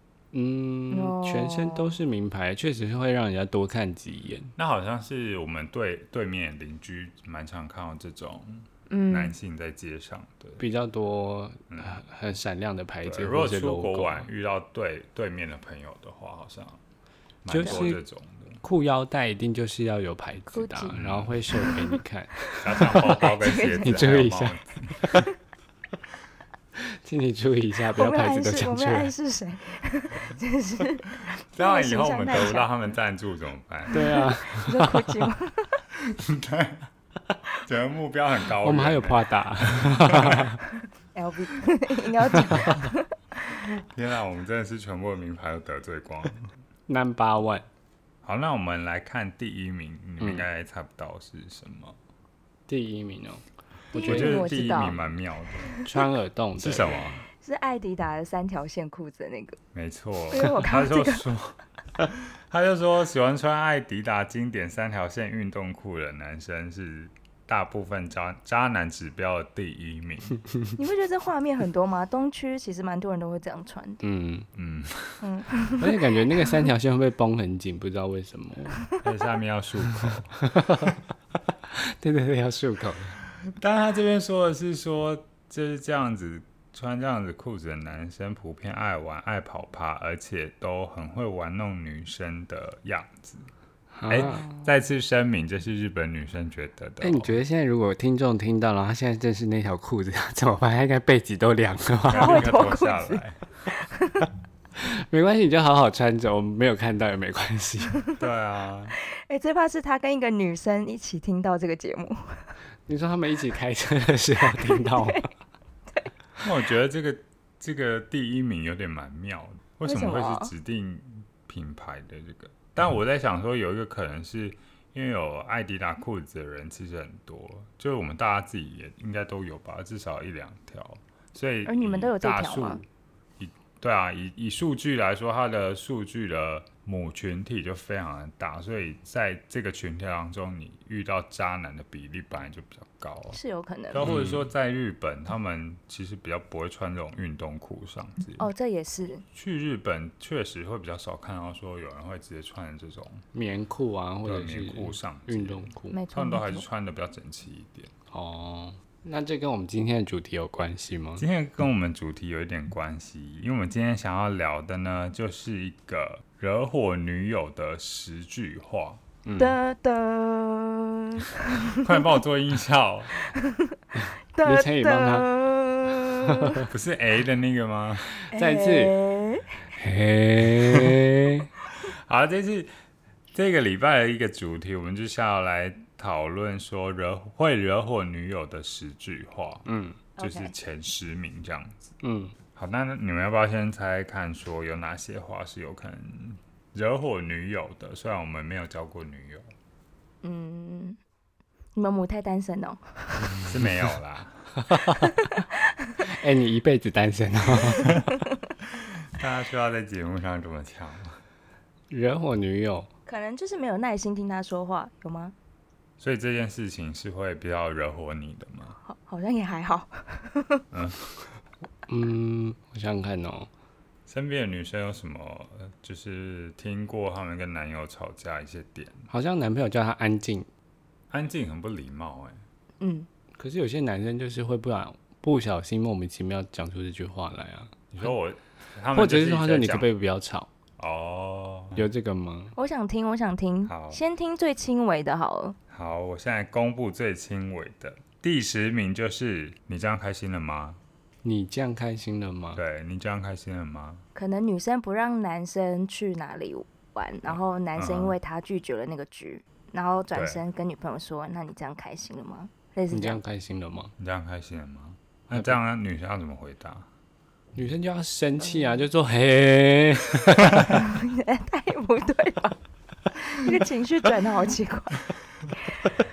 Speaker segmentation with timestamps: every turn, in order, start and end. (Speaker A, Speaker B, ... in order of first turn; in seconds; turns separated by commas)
Speaker A: 0.3-4.5, Speaker B: 0.9-1.9, Speaker C: 4.5-10.6, Speaker B: 8.9-9.3, Speaker A: 10.6-14.3, Speaker C: 11.7-12.0, Speaker C: 13.0-16.8, Speaker C: 17.4-18.6, Speaker A: 17.5-18.0, Speaker B: 17.6-17.9, Speaker A: 18.6-23.2, Speaker B: 20.5-22.0, Speaker C: 20.9-21.3, Speaker C: 22.6-25.2, Speaker B: 23.0-24.1, Speaker A: 23.8-25.3, Speaker A: 26.8-29.1, Speaker B: 27.9-32.7, Speaker C: 31.2-34.2, Speaker A: 33.9-35.2, Speaker B: 33.9-35.8, Speaker C: 36.0-36.9, Speaker C: 37.6-40.5, Speaker A: 38.6-40.6, Speaker B: 41.1-43.6, Speaker A: 42.3-42.9, Speaker C: 43.7-46.5, Speaker A: 46.9-47.6, Speaker C: 48.2-52.0, Speaker A: 50.2-50.5, Speaker A: 52.7-53.4, Speaker B: 53.9-55.0, Speaker C: 54.0-55.7, Speaker A: 54.0-55.0, Speaker B: 55.6-56.0, Speaker A: 55.8-57.2, Speaker C: 56.6-57.2, Speaker B: 57.4-59.6, Speaker C: 59.7-70.4, Speaker B: 60.3-61.3, Speaker B: 70.8-74.0, Speaker A: 74.0-74.5, Speaker C: 74.5-75.3, Speaker B: 75.2-76.5, Speaker A: 75.8-78.8, Speaker C: 79.0-80.4, Speaker A: 80.3-81.0, Speaker A: 81.7-83.2, Speaker C: 83.4-93.5, Speaker A: 93.9-94.5, Speaker C: 94.1-97.3, Speaker B: 94.3-94.6, Speaker A: 97.0-102.5, Speaker C: 102.1-103.4, Speaker B: 102.1-103.2, Speaker B: 103.8-104.3, Speaker A: 104.8-108.0, Speaker C: 108.2-108.9, Speaker B: 109.1-112.5, Speaker A: 112.9-115.3, Speaker B: 114.7-115.2, Speaker C: 116.4-132.8, Speaker B: 119.8-120.5, Speaker B: 131.7-132.8, Speaker C: 133.4-143.4, Speaker B: 143.3-144.1, Speaker C: 143.9-148.5, Speaker A: 144.0-144.4, Speaker B: 148.4-149.2, Speaker C: 149.3-153.2, Speaker A: 153.3-156.0, Speaker C: 154.2-157.9, Speaker B: 155.9-156.7, Speaker A: 158.1-161.2, Speaker C: 161.2-169.0, Speaker A: 169.2-169.6, Speaker B: 169.4-172.2, Speaker C: 171.8-173.2, Speaker B: 173.2-173.8, Speaker A: 174.0-175.3, Speaker B: 174.3-176.6, Speaker A: 175.9-176.6, Speaker C: 176.7-178.2, Speaker A: 178.2-178.9, Speaker B: 178.3-179.6, Speaker A: 179.7-181.5, Speaker C: 180.4-181.0, Speaker C: 181.7-182.7, Speaker C: 183.3-189.7, Speaker A: 189.7-190.0, Speaker B: 190.2-190.5, Speaker C: 190.2-191.9, Speaker A: 192.0-192.3, Speaker C: 192.6-199.5, Speaker B: 200.2-201.0, Speaker B: 201.7-203.4, Speaker C: 203.4-204.5, Speaker A: 204.6-205.1, Speaker B: 205.0-206.0, Speaker A: 206.0-208.0, Speaker C: 208.7-211.2, Speaker A: 211.9-212.9, Speaker B: 213.1-215.3, Speaker C: 216.0-218.8, Speaker B: 218.8-220.7, Speaker C: 220.7-221.0, Speaker A: 221.9-223.5, Speaker C: 224.1-229.1, Speaker A: 229.1-230.5, Speaker C: 231.1-232.4, Speaker B: 232.8-233.1, Speaker A: 233.4-237.8, Speaker C: 237.9-239.9, Speaker A: 238.9-240.5, Speaker C: 240.8-241.8, Speaker A: 241.7-242.5, Speaker B: 242.6-245.6, Speaker C: 243.7-244.0, Speaker C: 245.7-250.8, Speaker A: 251.2-252.6, Speaker C: 252.5-254.0, Speaker B: 254.1-263.2, Speaker C: 257.2-258.2, Speaker C: 260.1-260.4, Speaker A: 262.9-263.9, Speaker C: 264.0-266.9, Speaker A: 267.6-270.8, Speaker B: 268.5-268.7, Speaker B: 270.6-272.6, Speaker B: 273.1-275.9